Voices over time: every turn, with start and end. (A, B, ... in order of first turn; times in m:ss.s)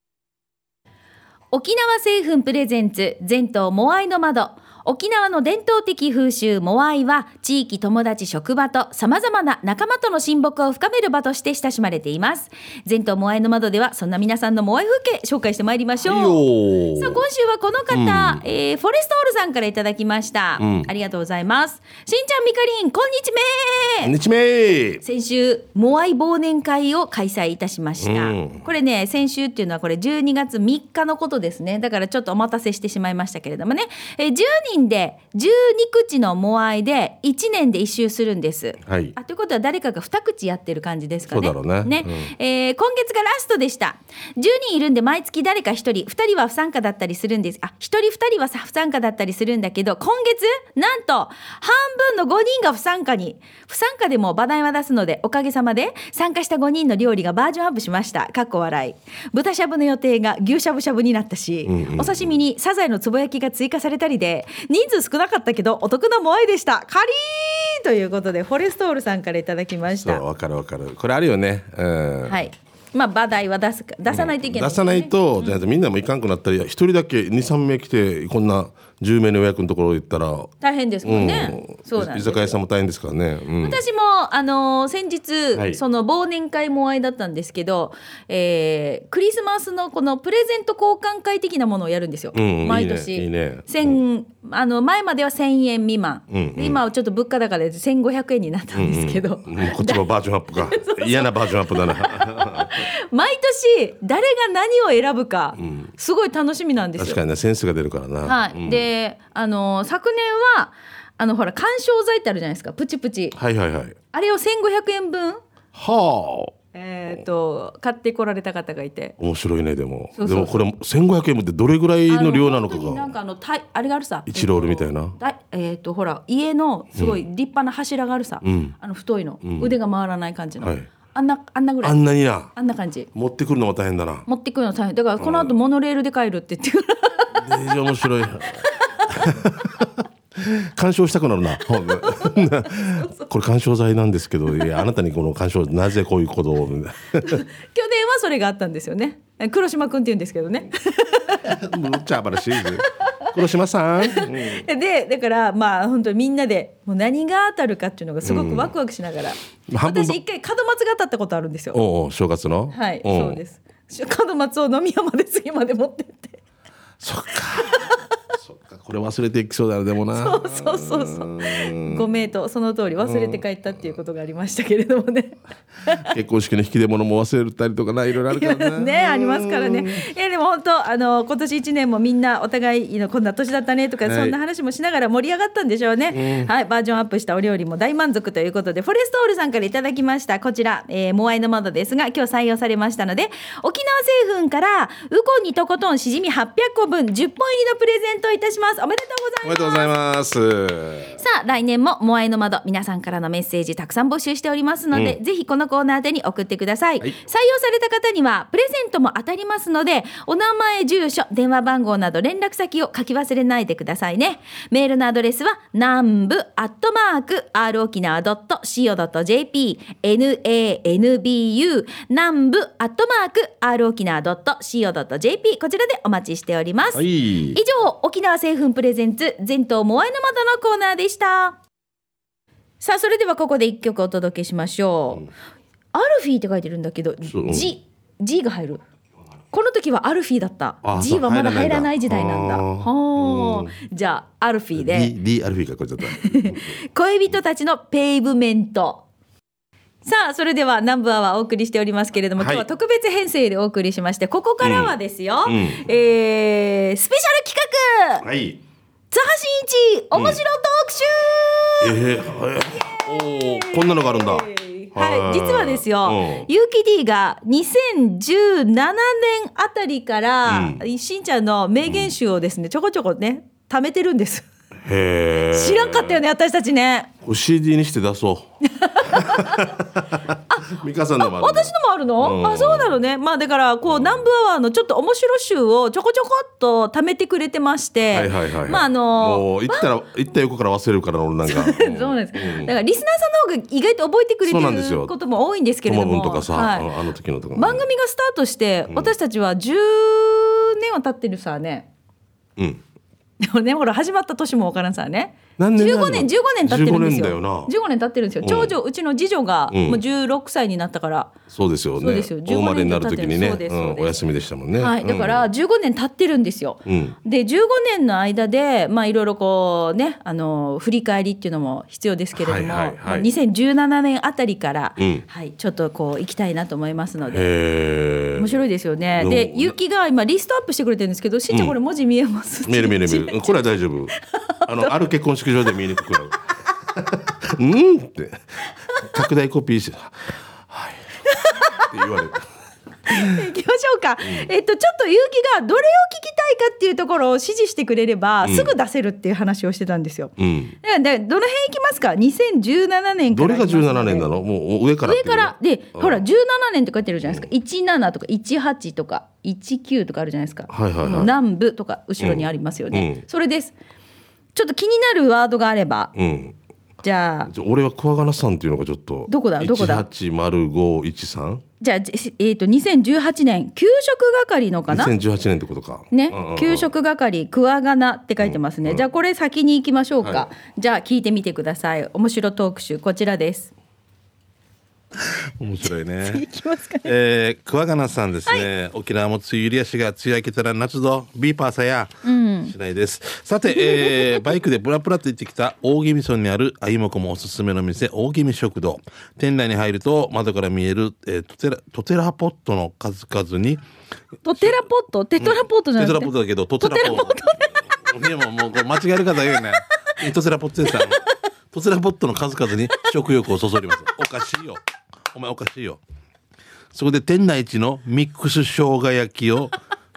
0:01.5-0:16.4 A
0:16.0-0:17.2 B
0:16.9-0:24.1 A
0:17.9-0:18.4 B
0:20.6-0:20.9 B
0:24.0-0:25.0 B
0:25.0-1:10.2 A
0:28.0-0:28.6 B
0:38.8-0:39.2 B
0:41.3-0:42.3 B
1:01.7-1:02.3 B
1:09.9-1:12.4 B
1:12.3-1:15.6 A
1:14.1-1:20.5 B
1:20.6-1:22.6 A
1:21.0-1:23.8 B
1:23.6-1:47.2 A
1:25.5-1:25.8 B
1:32.3-1:34.0 B
1:36.3-1:36.8 B
1:38.7-1:42.8 B
1:45.6-1:45.9 B
1:47.0-1:48.9 B
1:48.2-1:53.4 A
1:53.4-1:54.0 B
1:54.1-1:55.4 A
1:55.7-1:56.5 B
1:56.7-1:59.2 A
1:59.2-2:03.1 B
2:00.2-2:00.6 A
2:02.1-2:12.0 A
2:04.3-2:05.2 B
2:07.0-2:07.2 B
2:08.4-2:08.8 B
2:09.4-2:09.7 B
2:10.6-2:10.9 B
2:11.8-2:12.5 B
2:12.6-2:13.1 A
2:13.1-2:14.3 B
2:14.3-2:17.4 A
2:15.2-2:15.5 B
2:17.3-2:27.4 B
2:22.0-2:23.3 A
2:27.2-2:31.7 A
2:31.4-2:34.7 B
2:32.8-2:33.3 A
2:34.0-2:41.8 A
2:38.2-2:38.7 B
2:39.7-2:40.2 B
2:41.7-2:43.4 B
2:42.7-2:46.4 A
2:47.0-2:52.1 B
2:50.1-2:56.1 A
2:53.0-2:53.4 B
2:56.1-3:00.0 B
2:58.3-3:19.9 A
3:04.0-3:04.4 B
3:06.1-3:06.5 B
3:19.4-3:21.2 B
3:21.2-3:51.6 A
3:46.9-3:47.6 B
3:52.8-3:55.3 A
3:55.9-3:58.8 A
3:57.3-3:57.7 B
3:59.5-4:05.1 A
4:00.8-4:03.7 B
4:04.8-4:06.7 B
4:06.1-4:09.0 A
4:10.0-4:18.2 A
4:12.4-4:12.7 B
4:14.6-4:15.8 B
4:18.2-4:18.6 B
4:19.1-4:22.1 A
4:20.1-4:20.4 B
4:21.8-4:26.5 B
4:22.7-4:34.5 A
4:30.5-4:30.8 B
4:31.8-4:32.1 B
4:34.8-4:36.2 B
4:35.5-4:37.1 A
4:37.2-4:38.5 B
4:38.7-4:39.7 A
4:39.0-4:43.0 B
4:40.5-4:49.9 A
4:43.8-4:44.3 B
4:48.1-4:52.7 B
4:51.5-4:56.9 A
4:54.4-4:55.1 B
4:55.9-4:57.8 B
4:57.6-5:01.9 A
5:02.6-5:02.8 B
5:03.4-5:11.3 A
5:05.6-5:07.7 B
5:08.4-5:08.7 B
5:09.7-5:10.0 B
5:11.5-5:15.5 B
5:12.0-5:14.1 A
5:14.8-5:27.4 A
5:16.8-5:17.2 B
5:22.4-5:23.3 B
5:25.0-5:25.2 B
5:27.3-5:28.6 B
5:28.4-5:33.6 A
5:29.2-5:29.8 B
5:31.5-5:31.8 B
5:32.7-5:34.1 B
5:34.3-5:34.9 A
5:34.7-5:36.4 B
5:36.9-5:38.4 B
5:39.0-5:41.0 B
5:41.2-5:41.9 A
5:41.8-5:42.5 B
5:43.1-5:54.3 A
5:43.1-5:43.4 B
5:44.2-5:44.5 B
5:48.4-5:48.7 B
5:50.4-5:50.8 B
5:53.3-5:56.2 B
5:55.0-6:03.7 A
6:00.7-6:01.3 B
6:02.2-6:03.2 B
6:04.6-6:06.1 A
6:06.2-6:06.6 B
6:07.0-6:07.5 A
6:07.5-6:11.6 B
6:09.3-6:10.0 A
6:11.8-6:15.1 A
6:14.9-6:16.9 B
6:16.1-6:23.7 A
6:18.4-6:19.0 B
6:25.2-6:26.4 B
6:26.2-6:27.1 A
6:27.0-6:32.1 B
6:32.2-6:32.7 A
6:32.7-6:43.8 B
6:33.7-6:34.4 A
6:44.4-6:47.7 A
6:45.4-6:54.8 B
6:55.3-6:56.0 B
6:56.9-6:59.7 B